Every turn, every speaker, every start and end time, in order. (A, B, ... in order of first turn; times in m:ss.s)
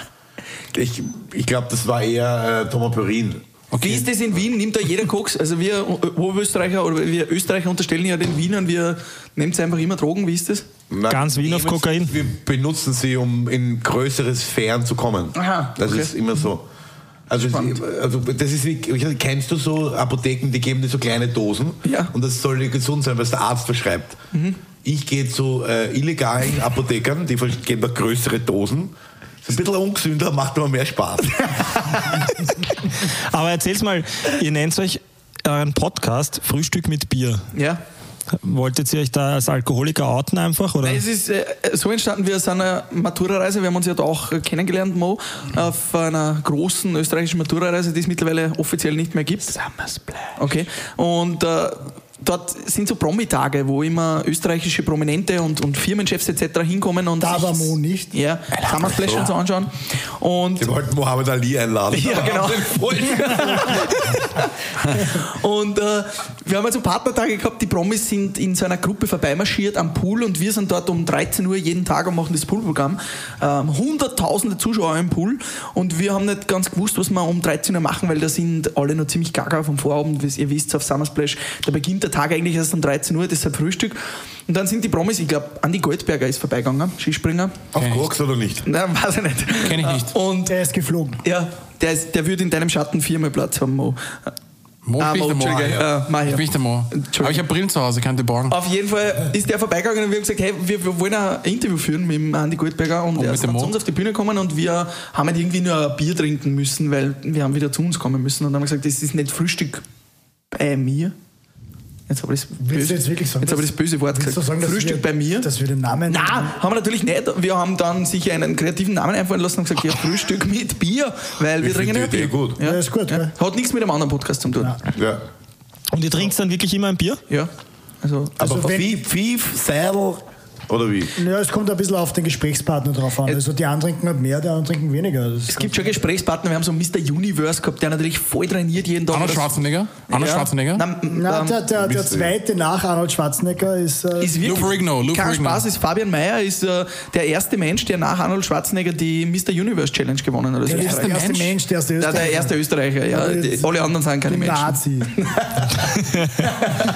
0:00.7-0:03.4 A
0:03.7-0:04.1 B
0:03.8-0:10.7 C
0:10.9-0:16.6 A
0:11.1-0:12.2 D
0:15.4-0:16.1 C
0:17.3-0:24.2 A
0:17.5-0:17.8 C
0:21.8-0:22.1 C
0:24.3-0:24.6 C
0:24.8-0:28.9 A
0:29.4-0:31.5 A
0:33.0-0:37.4 D
0:37.5-0:37.8 C
0:38.3-0:41.0 D
0:40.8-0:49.6 C
0:49.6-0:50.4 E
0:50.4-1:00.7 C
0:57.2-0:58.1 E
1:00.6-1:03.9 A
1:01.9-1:27.6 C
1:27.7-1:28.7 A
1:27.8-1:28.1 B
1:28.7-1:30.6 C
1:29.6-1:30.1 B
1:30.5-1:31.2 E
1:31.2-1:34.3 C
1:34.8-1:38.6 B
1:35.0-1:37.4 C
1:35.4-1:35.9 A
1:38.5-1:49.8 C
1:43.2-1:43.8 B
1:50.5-1:51.1 C
1:52.1-1:55.5 C
1:52.6-1:56.6 E
1:56.1-2:04.8 C
2:01.6-2:02.6 A
2:02.6-2:03.3 E
2:05.0-2:05.2 A
2:05.9-2:07.2 D
2:08.0-2:08.8 C
2:08.4-2:11.2 A
2:08.4-2:08.9 E
2:11.2-2:16.0 E
2:15.5-2:19.6 C
2:19.1-2:20.8 B
2:20.1-2:21.6 C
2:21.1-2:24.6 E
2:21.8-2:22.3 A
2:24.2-2:31.5 C
2:24.4-2:25.6 B
2:30.7-2:32.5 E
2:30.7-2:31.5 B
2:32.0-2:35.8 C
2:33.1-2:33.7 E
2:34.3-2:35.1 E